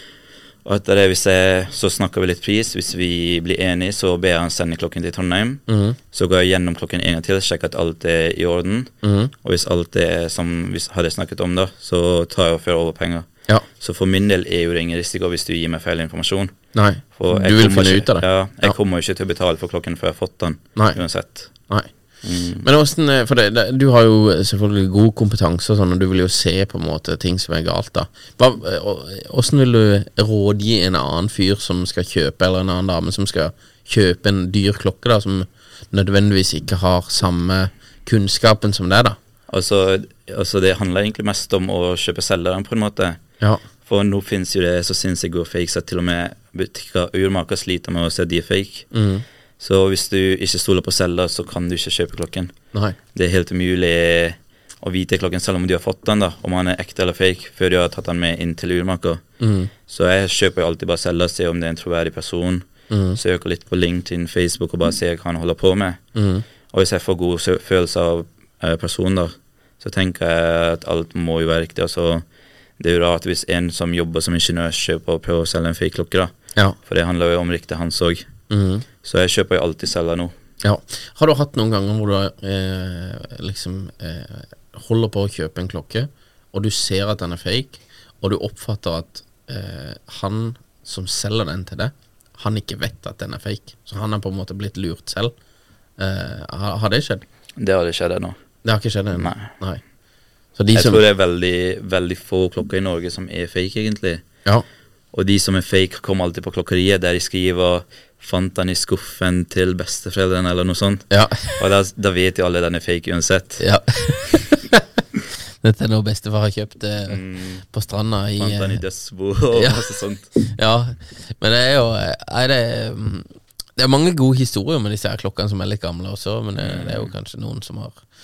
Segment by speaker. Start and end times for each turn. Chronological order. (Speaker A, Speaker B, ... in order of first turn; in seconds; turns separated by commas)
Speaker A: 0.6-16.5, Speaker B: 5.7-6.0, Speaker B: 9.0-9.3, Speaker B: 16.7-18.8, Speaker A: 17.1-21.5, Speaker A: 22.2-22.7, Speaker B: 22.6-39.2, Speaker A: 39.5-43.2, Speaker A: 43.8-48.9, Speaker B: 48.9-49.2, Speaker A: 49.6-52.5, Speaker A: 53.1-59.2, Speaker B: 59.4-59.7, Speaker A: 59.9-66.0, Speaker B: 62.9-63.2, Speaker B: 66.1-66.4, Speaker A: 66.7-72.2, Speaker A: 72.8-78.3, Speaker B: 78.5-78.8, Speaker A: 79.0-80.3, Speaker B: 80.6-95.3, Speaker B: 96.0-97.2, Speaker A: 97.5-98.4, Speaker B: 98.6-99.8, Speaker A: 99.2-99.5, Speaker B: 100.5-101.0, Speaker A: 100.7-104.2, Speaker A: 105.1-113.6, Speaker B: 111.1-111.6, Speaker B: 113.6-114.8, Speaker B: 115.6-118.8, Speaker A: 117.1-117.6, Speaker A: 118.4-120.3, Speaker B: 119.5-119.8, Speaker B: 120.3-128.0, Speaker A: 126.6-127.1